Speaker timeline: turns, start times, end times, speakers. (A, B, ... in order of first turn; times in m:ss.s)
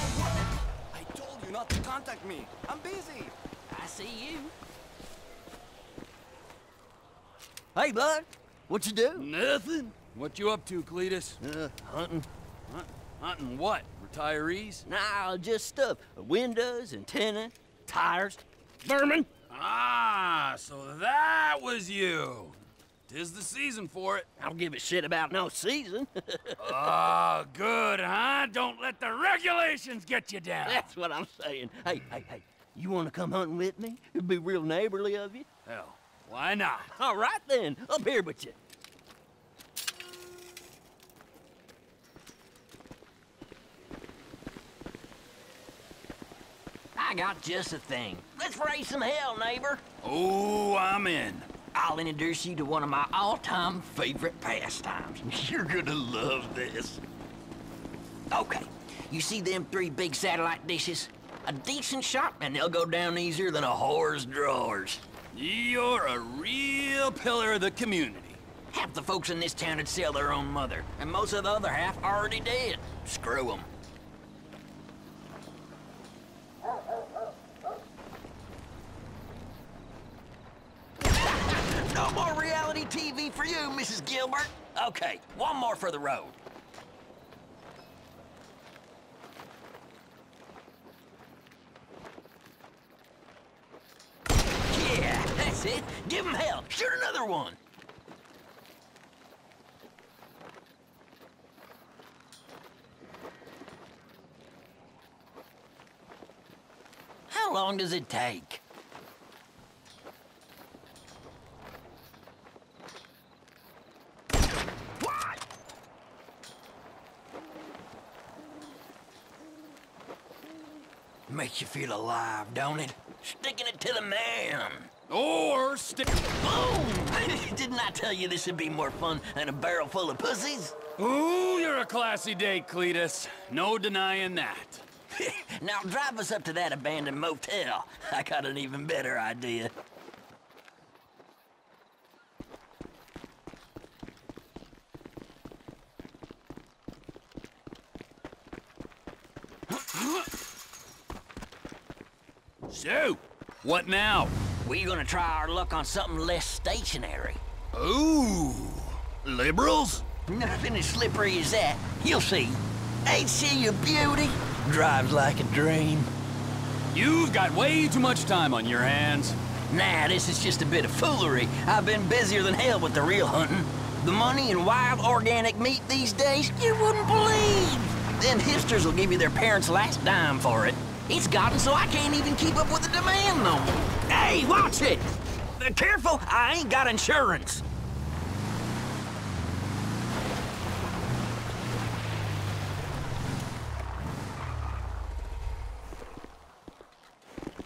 0:00.9-0:03.3 A
0:03.7-0:04.5 B
0:07.7-0:09.3 B
0:09.2-0:11.4 A
0:11.4-0:12.3 B
0:12.7-0:14.8 A
0:14.8-0:19.3 B
0:19.5-0:24.3 A
0:24.4-0:27.0 B
0:26.6-0:30.9 A
0:30.6-0:35.5 B
0:35.7-0:36.9 A
0:36.9-0:38.6 B
0:46.9-0:49.8 B
0:50.0-0:51.5 A
0:51.7-0:57.0 B
0:58.3-1:05.0 B
1:05.3-1:08.4 A
1:08.7-1:13.7 B
1:21.1-1:26.4 B
1:34.7-1:37.6 B
1:47.3-1:48.6 B
2:01.3-2:04.9 B
2:05.1-2:06.1 A
2:06.3-2:10.8 B
2:11.0-2:14.8 A
2:15.1-2:19.7 B
2:32.7-2:34.3 A
2:34.6-2:37.4 B
2:37.7-2:40.0 A
2:40.3-2:46.1 B
2:46.9-2:49.4 A
2:49.7-3:07.6 B